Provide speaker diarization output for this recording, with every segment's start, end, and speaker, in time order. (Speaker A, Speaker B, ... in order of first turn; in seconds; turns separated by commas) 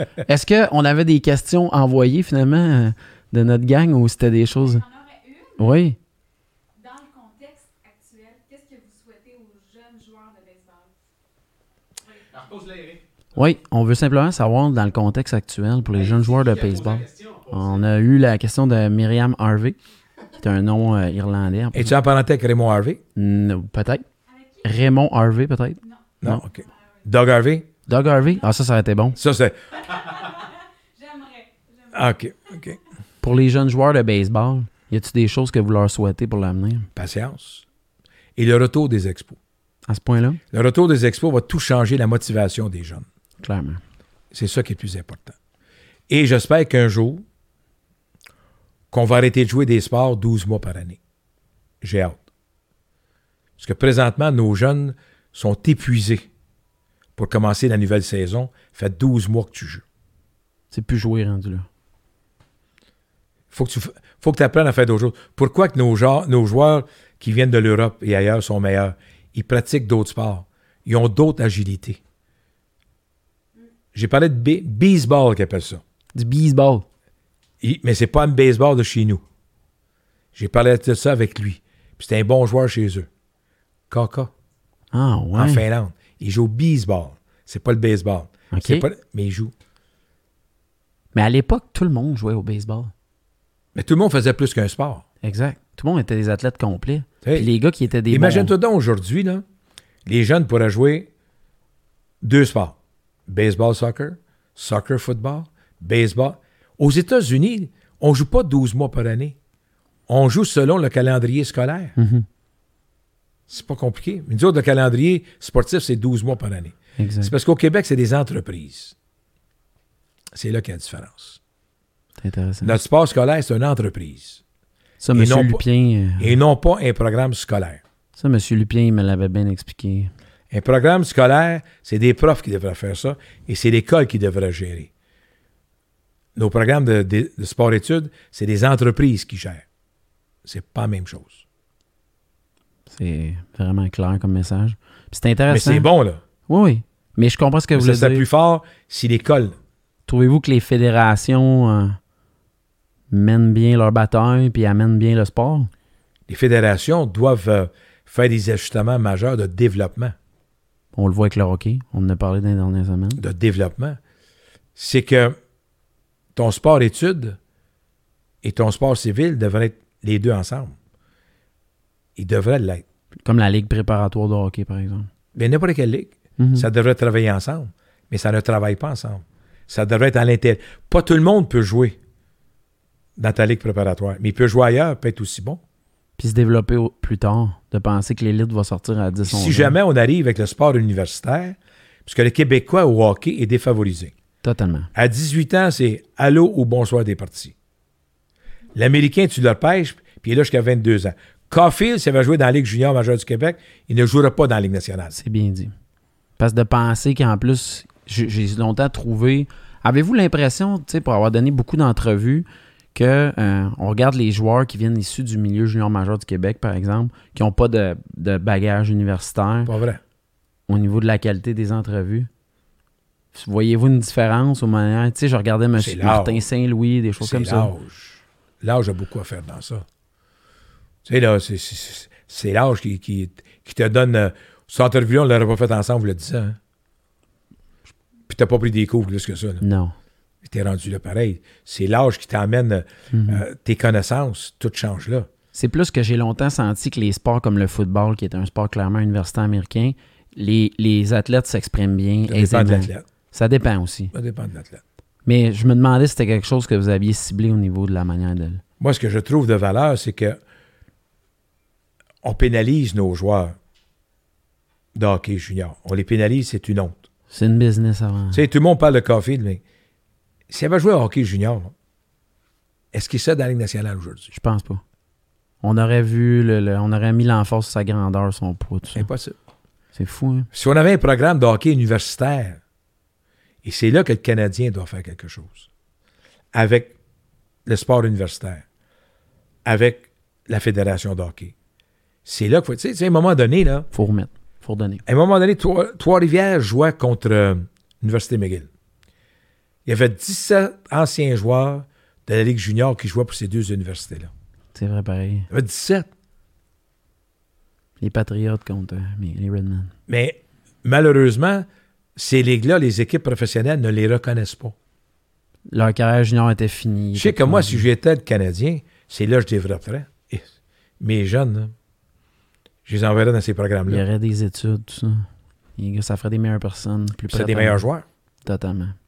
Speaker A: 0.2-4.8, Speaker B: 4.6-5.8, Speaker A: 5.6-6.0, Speaker B: 6.8-10.9, Speaker A: 13.3-19.8, Speaker A: 20.4-22.0, Speaker C: 21.7-23.0, Speaker A: 23.1-24.0, Speaker B: 24.3-24.6, Speaker A: 24.6-26.4, Speaker C: 26.2-27.7, Speaker A: 27.9-29.2, Speaker C: 29.2-29.9, Speaker B: 29.9-31.9, Speaker C: 31.9-32.8, Speaker A: 33.2-36.9, Speaker C: 37.0-37.6, Speaker C: 38.4-39.4, Speaker A: 39.9-40.4, Speaker C: 40.5-43.1, Speaker A: 43.4-43.8, Speaker C: 44.3-45.4, Speaker C: 46.1-47.2, Speaker C: 48.9-51.0, Speaker C: 51.8-52.2, Speaker C: 53.6-56.3, Speaker C: 57.2-59.8, Speaker A: 60.7-61.7, Speaker C: 63.5-72.0, Speaker C: 73.9-75.8, Speaker A: 76.2-76.8, Speaker C: 77.6-79.2, Speaker C: 80.3-83.1, Speaker C: 83.9-84.3, Speaker A: 84.9-85.7, Speaker C: 85.3-89.5, Speaker A: 88.5-88.9, Speaker A: 91.1-92.9, Speaker C: 93.8-95.0, Speaker A: 95.2-98.5, Speaker C: 97.2-97.5, Speaker C: 98.1-99.4, Speaker C: 100.1-101.1, Speaker C: 102.2-109.4, Speaker C: 110.1-112.0, Speaker A: 112.0-112.3, Speaker C: 113.5-119.0, Speaker A: 117.0-117.3, Speaker C: 120.3-121.4, Speaker A: 122.2-122.8, Speaker C: 122.6-124.4, Speaker A: 125.0-126.4, Speaker C: 125.2-125.6, Speaker C: 126.2-127.8, Speaker A: 128.2-130.1, Speaker C: 130.5-134.9, Speaker C: 136.3-139.7, Speaker C: 140.4-141.4, Speaker A: 142.9-145.9, Speaker C: 145.5-146.2, Speaker A: 146.5-148.2, Speaker C: 147.7-149.6, Speaker A: 150.1-152.0, Speaker A: 153.1-155.7, Speaker C: 156.3-160.2, Speaker A: 160.9-163.2, Speaker C: 163.2-164.0, Speaker C: 164.8-165.4, Speaker C: 166.3-167.4, Speaker C: 168.4-170.8, Speaker C: 172.2-172.8, Speaker A: 173.2-175.1, Speaker C: 175.3-182.0, Speaker A: 176.4-176.7, Speaker C: 183.2-185.6, Speaker A: 186.2-189.8, Speaker C: 189.3-194.1, Speaker A: 194.4-194.9, Speaker C: 194.9-197.5, Speaker C: 198.8-205.2, Speaker A: 205.2-205.7, Speaker A: 206.4-219.7, Speaker C: 219.7-220.0, Speaker A: 220.7-222.3, Speaker A: 223.3-227.7, Speaker C: 225.8-226.4, Speaker C: 227.2-229.9, Speaker C: 231.1-236.6, Speaker C: 238.3-239.6, Speaker A: 239.6-239.9, Speaker C: 240.4-245.3, Speaker A: 243.1-243.4, Speaker A: 245.5-254.1, Speaker C: 252.3-253.1, Speaker C: 254.1-254.8, Speaker A: 255.2-258.6, Speaker C: 258.8-260.4, Speaker C: 262.2-263.6, Speaker C: 264.9-267.0, Speaker A: 267.3-268.4, Speaker C: 268.3-269.6, Speaker C: 270.5-271.7, Speaker C: 272.9-274.3, Speaker A: 274.3-274.8, Speaker A: 275.6-279.1, Speaker C: 278.9-279.4, Speaker A: 279.9-280.5, Speaker C: 280.5-282.6, Speaker C: 283.6-285.7, Speaker C: 286.5-286.9, Speaker C: 287.7-288.6, Speaker C: 289.6-291.5, Speaker C: 292.2-293.9, Speaker A: 293.9-295.0, Speaker C: 295.1-298.7, Speaker C: 299.9-304.3, Speaker A: 304.8-305.5, Speaker C: 305.5-306.1, Speaker A: 308.0-309.9, Speaker C: 310.1-314.8, Speaker A: 315.7-317.9, Speaker C: 317.1-321.7, Speaker C: 322.9-324.0, Speaker A: 323.9-327.9, Speaker C: 327.3-328.1, Speaker A: 328.4-329.0